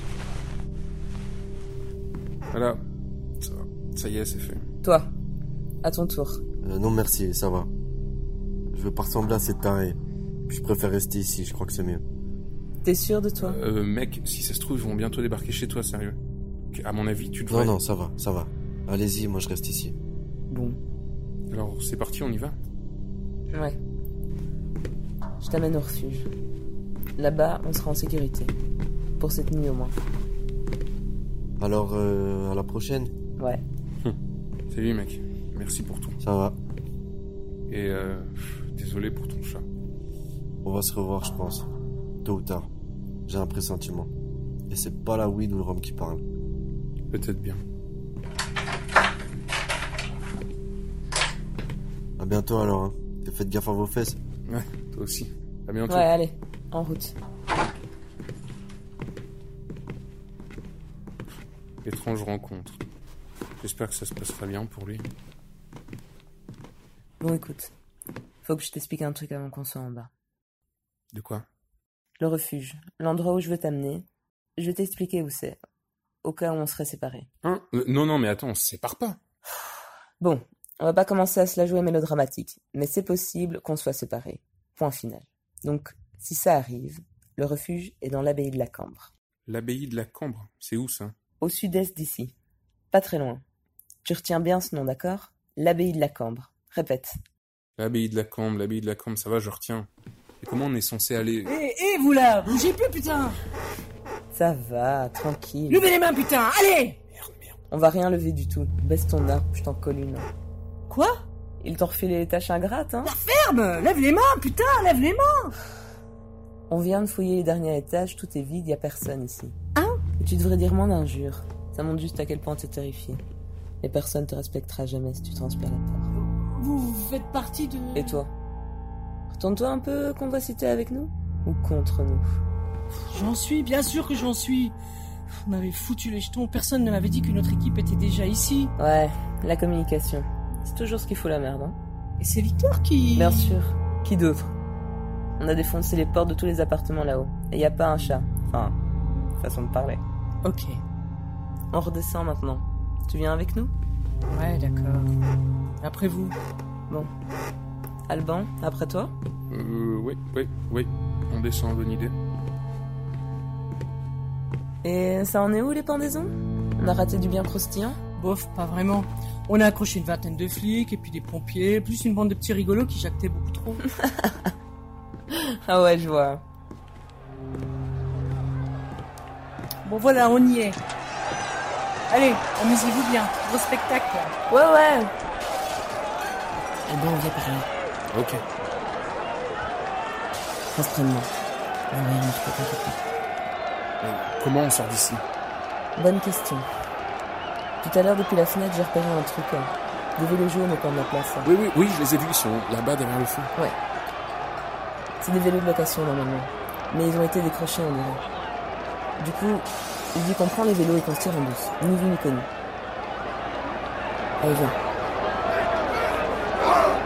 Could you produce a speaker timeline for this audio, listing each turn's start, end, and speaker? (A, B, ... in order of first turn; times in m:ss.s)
0:02.5-0:02.8 A
0:03.4-0:04.6 A
0:04.8-0:05.1 B
0:05.8-0:06.4 B
0:06.6-0:07.7 C
0:08.7-0:12.0 C
0:12.8-0:13.6 B
0:13.4-0:16.2 A
0:16.7-0:17.7 A
0:17.5-0:20.0 C
0:20.5-0:20.8 B
0:21.5-0:22.6 A
0:23.5-0:23.8 B
0:25.4-0:26.3 B
0:27.2-0:28.5 B
0:29.2-0:30.0 B
0:31.6-0:33.1 C
0:33.4-0:33.6 B
0:34.7-0:36.2 A
0:36.2-0:36.6 C
0:37.7-0:39.6 A
0:40.6-0:41.7 C
0:42.2-0:42.7 C
0:43.3-0:44.1 C
0:44.7-0:46.2 C
0:47.1-0:47.6 A
0:52.2-0:54.2 C
0:54.5-0:56.1 A
0:55.9-0:57.2 B
1:01.8-1:02.8 A
1:03.6-1:05.1 A
1:07.2-1:07.7 B
1:08.4-1:10.1 B
1:11.1-1:11.4 A
1:12.2-1:15.6 B
1:16.2-1:17.3 B
1:17.4-1:19.2 A
1:20.2-1:29.1 B
1:29.4-1:31.1 A
1:31.4-1:32.3 B
1:32.9-1:33.4 B
1:34.0-1:37.1 B
1:37.8-1:39.9 A
1:40.4-1:41.5 A
1:41.4-1:43.4 D
1:44.3-1:45.9 B
1:45.7-1:47.0 D
1:47.7-1:50.3 B
1:50.9-1:51.2 D
1:51.6-1:53.1 B
1:53.0-1:55.5 D
1:56.7-1:59.6 B
2:00.2-2:03.2 B
2:03.8-2:06.1 B
2:06.3-2:08.2 D
2:07.9-2:08.3 B
2:09.3-2:12.2 B
2:13.1-2:14.8 D
2:15.4-2:18.7 D
2:18.8-2:21.8 B
2:22.2-2:23.5 D
2:23.1-2:24.5 B
2:25.4-2:28.8 B
2:29.4-2:30.0 B
2:30.4-2:30.8 D
2:31.7-2:33.7 B
2:34.3-2:35.1 D
2:35.8-2:36.3 D
2:38.1-2:39.1 B
2:39.5-2:42.2 A
2:44.8-2:48.0 B
2:48.2-2:53.8 D
2:53.9-2:54.5 B
2:55.3-2:56.4 B
2:59.8-3:00.8 D
3:02.1-3:04.3 D
3:04.5-3:05.1 B
3:06.8-3:07.7 B
3:08.1-3:08.4 A
3:10.7-3:11.3 B
3:11.9-3:13.0 B
3:14.0-3:15.2 A
3:16.0-3:16.7 B
3:17.8-3:21.5 B
3:21.4-3:23.5 A
3:25.2-3:28.3 B
3:29.2-3:32.5 B
3:34.4-3:34.8 B